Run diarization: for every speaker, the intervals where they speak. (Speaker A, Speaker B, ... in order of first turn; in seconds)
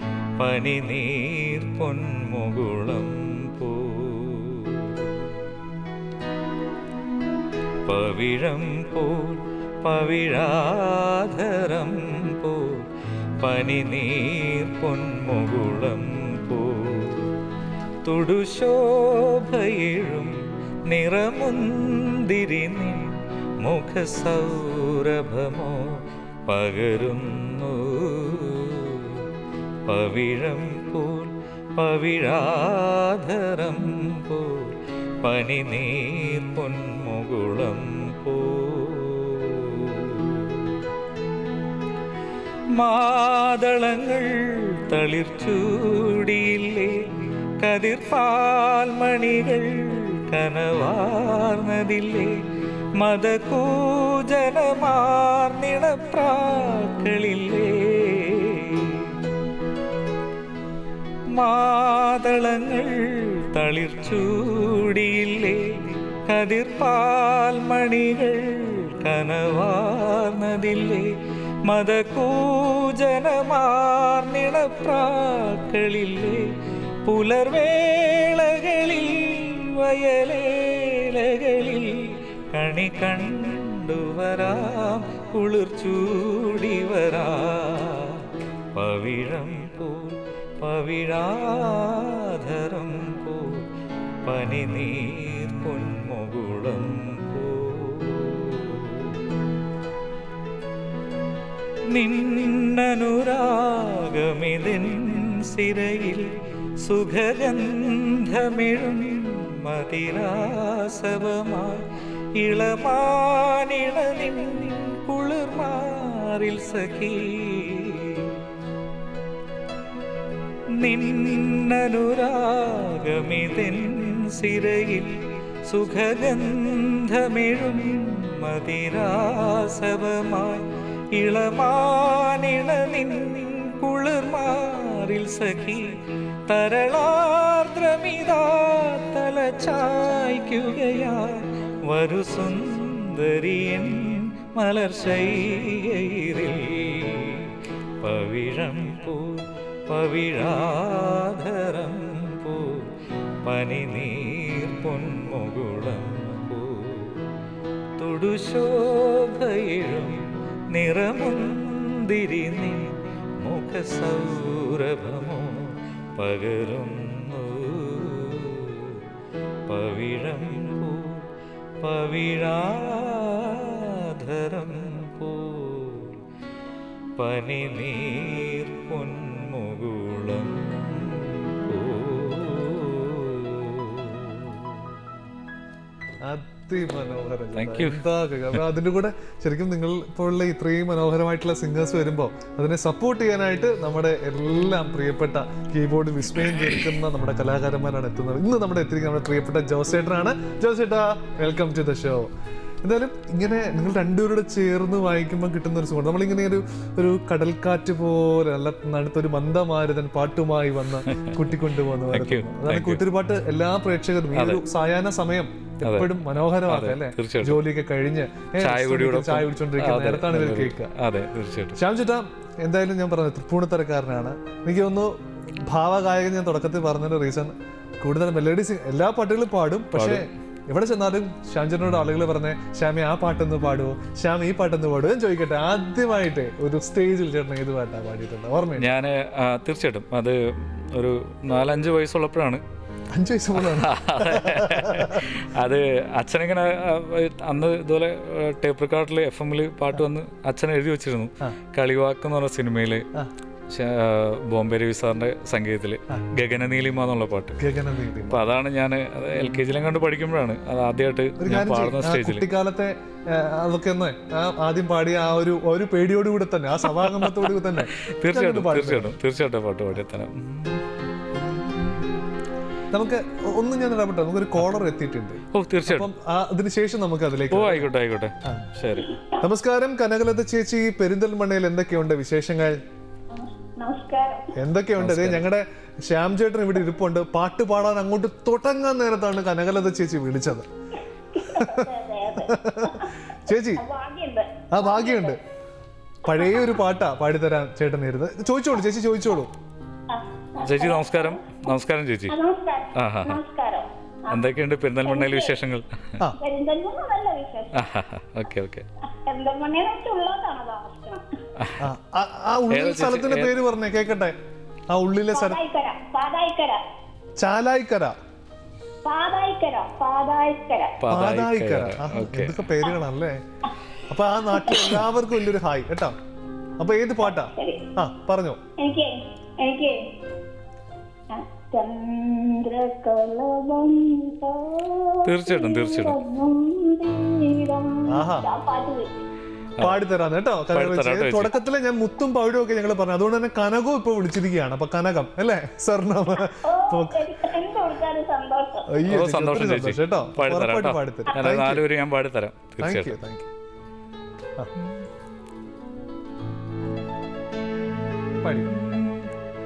Speaker A: 0.4-5.3, 7.9-12.8, 13.4-17.3, 18.1-20.4, 20.9-26.0, 26.5-29.2, 29.9-40.7, 42.8-47.0, 47.6-52.4, 53.0-59.1, 61.4-71.1, 71.7-76.5, 77.0-93.7, 94.2-99.2, 101.9-106.3, 106.8-111.8, 112.4-118.3, 120.8-135.9, 136.5-152.9, 153.4-157.3, 158.0-169.0, 169.7-171.3, 171.8-176.2, 177.2-184.8, 187.6-188.0, 211.1-211.4, 212.1-213.0, 214.3-214.6, 215.8-216.1, 216.7-217.6, 218.6-221.8, 229.9-230.3, 238.8-242.6, 243.6-253.1, 253.7-257.6, 258.3-262.5, 266.9-272.1, 275.5-276.1, 277.5-279.2, 285.0-285.4, 300.6-302.4, 302.9-303.4, 304.3-306.2, 307.7-308.9, 311.6-311.9, 312.7-313.6, 321.0-322.7, 335.2-336.2, 340.7-341.5, 349.1-353.2, 358.7-359.3
Speaker B: 186.2-202.3, 202.8-220.9, 221.8-225.2, 225.7-238.9, 243.1-245.2, 257.6-258.4, 261.4-269.1, 272.9-277.9, 279.4-282.8, 284.6-290.7, 291.4-293.8, 294.7-295.4, 296.2-299.5, 311.8-314.4, 314.9-315.6, 317.4-318.2, 321.1-323.4, 324.1-326.2, 326.8-328.6, 338.1-338.5, 339.8-347.3, 348.9-351.9, 352.8-353.5, 358.4-358.7
Speaker C: 283.3-284.5, 291.4-293.2, 293.7-295.4, 296.3-296.7, 300.1-301.6, 302.3-304.4, 305.0-305.6, 306.4-307.8, 309.3-311.2, 315.3-316.8, 319.1-321.0, 327.6-327.8, 328.8-330.0, 331.3-339.1, 346.6-348.9